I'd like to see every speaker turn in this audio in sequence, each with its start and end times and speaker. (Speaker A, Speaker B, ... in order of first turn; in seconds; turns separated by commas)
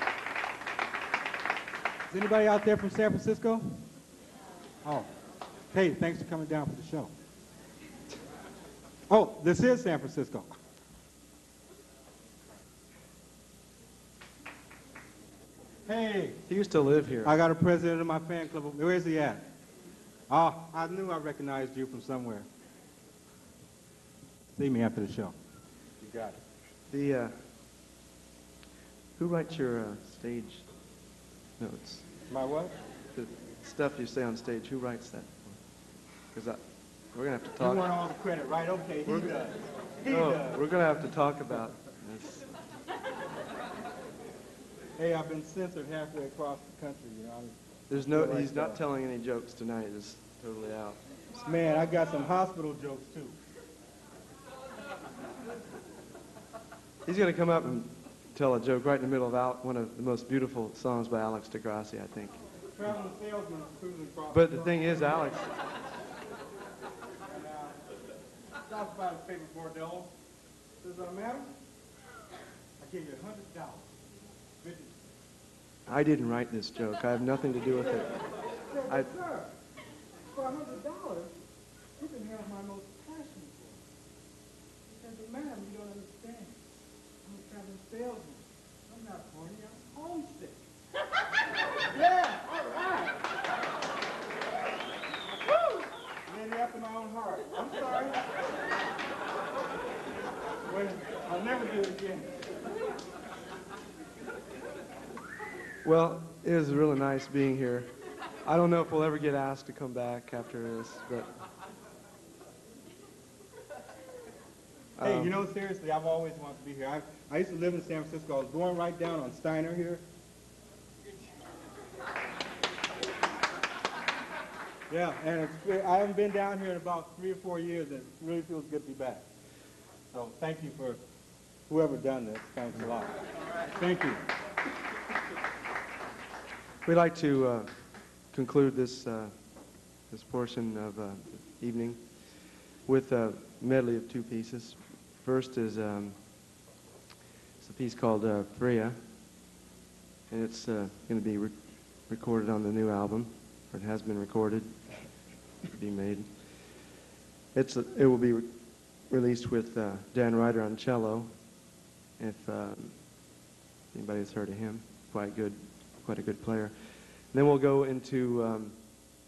Speaker A: 2.1-3.8, Speaker A: 4.8-5.1, Speaker A: 5.7-7.1, Speaker A: 9.1-10.5, Speaker A: 15.8-16.4, Speaker B: 16.5-17.3, Speaker A: 17.2-19.4, Speaker A: 20.3-22.5, Speaker A: 24.5-25.3, Speaker A: 26.0-26.4, Speaker B: 26.9-27.3, Speaker B: 29.2-30.7, Speaker B: 31.6-32.0, Speaker A: 32.3-32.7, Speaker B: 33.1-37.9, Speaker A: 37.6-40.7, Speaker B: 39.0-39.3, Speaker B: 40.1-42.5, Speaker A: 45.0-48.8, Speaker B: 47.9-51.0, Speaker A: 51.3-53.4, Speaker B: 57.0-62.4, Speaker A: 62.7-65.3, Speaker B: 64.3-65.5, Speaker A: 67.2-67.8, Speaker A: 68.7-70.1, Speaker A: 70.8-71.5, Speaker A: 72.8-73.9, Speaker A: 74.6-75.0, Speaker B: 75.9-78.3, Speaker A: 78.7-79.5, Speaker A: 80.3-81.3, Speaker A: 82.0-83.8, Speaker A: 84.9-86.6, Speaker A: 87.2-90.6, Speaker A: 91.9-93.2, Speaker A: 96.2-98.2, Speaker A: 100.7-102.3, Speaker B: 105.8-107.9, Speaker B: 108.4-111.3, Speaker B: 115.0-115.3, Speaker A: 115.0-120.0, Speaker A: 124.9-129.2, Speaker A: 130.1-131.0, Speaker A: 131.7-134.2, Speaker B: 136.8-139.3, Speaker B: 139.9-146.2, Speaker B: 147.6-148.9, Speaker B: 150.3-157.0, Speaker B: 157.5-161.5, Speaker B: 162.2-163.4, Speaker B: 163.9-168.8